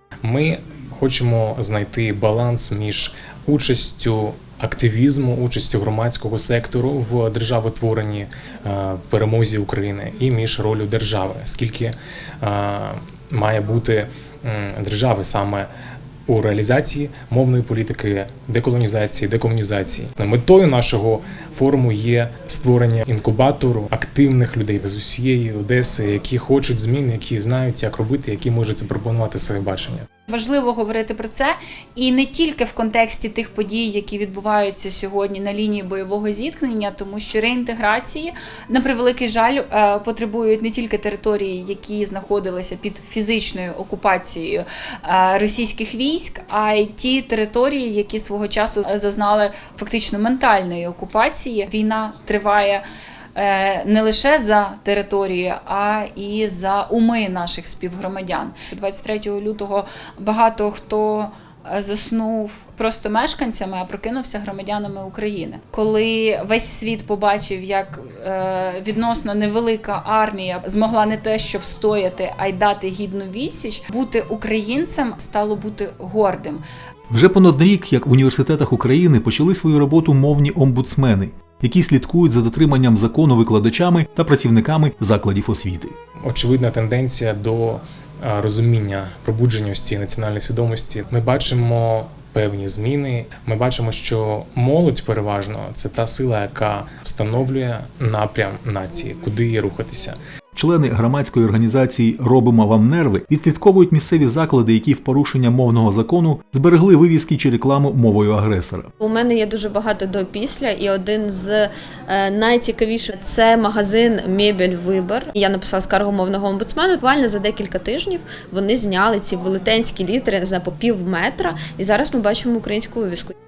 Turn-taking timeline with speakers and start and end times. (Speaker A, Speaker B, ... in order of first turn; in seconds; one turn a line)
Speaker A: 0.2-15.6
Speaker A: 16.3-30.1
Speaker B: 30.3-52.8
Speaker B: 53.3-76.6
Speaker C: 77.1-85.9
Speaker A: 86.2-100.2
Speaker C: 100.5-108.9
Speaker D: 109.0-123.3